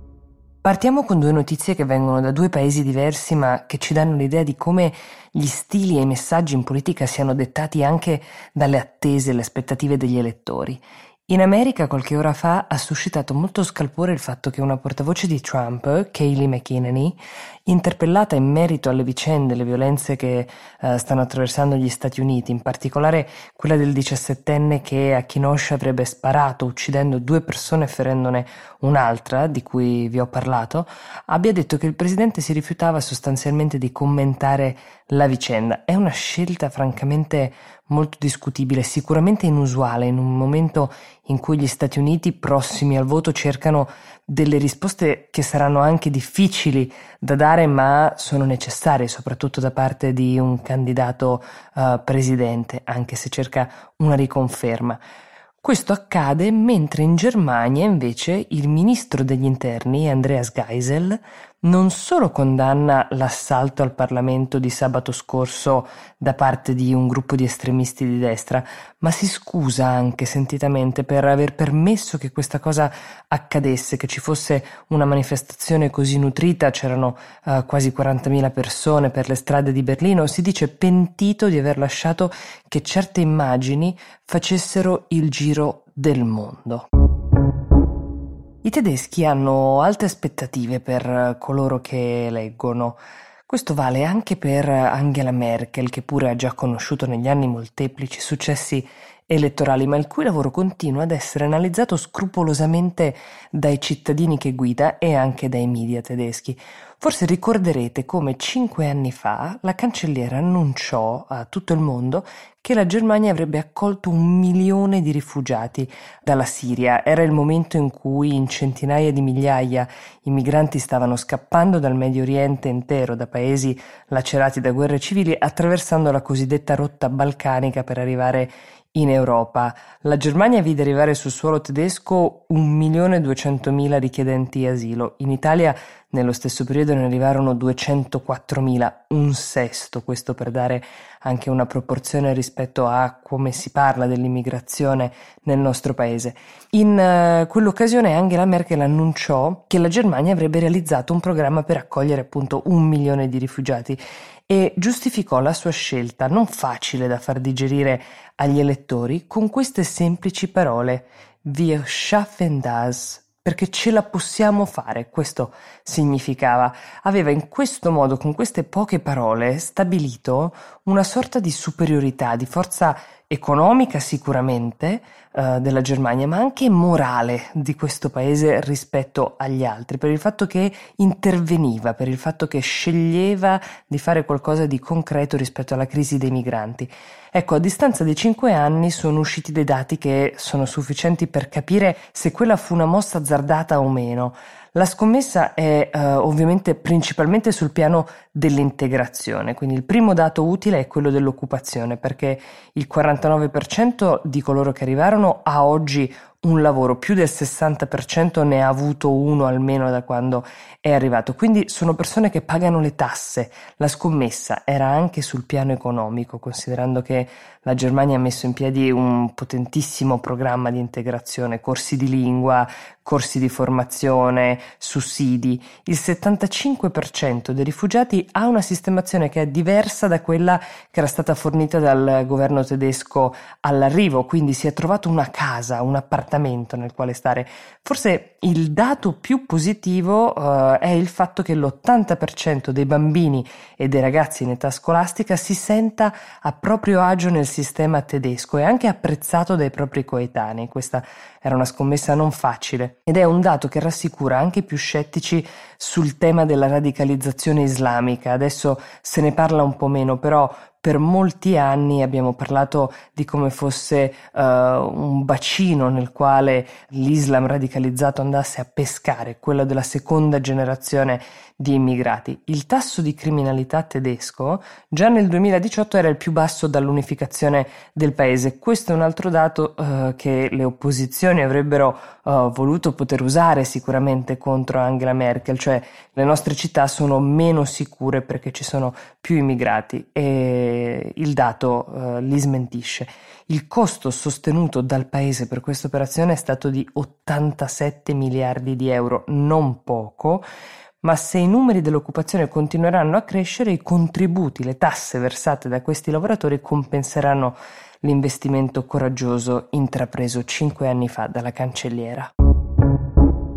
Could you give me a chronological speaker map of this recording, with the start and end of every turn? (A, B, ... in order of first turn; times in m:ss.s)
0:00.6-0:55.0 A
0:55.6-1:26.9 A
1:28.6-5:00.5 A
5:01.0-5:12.3 A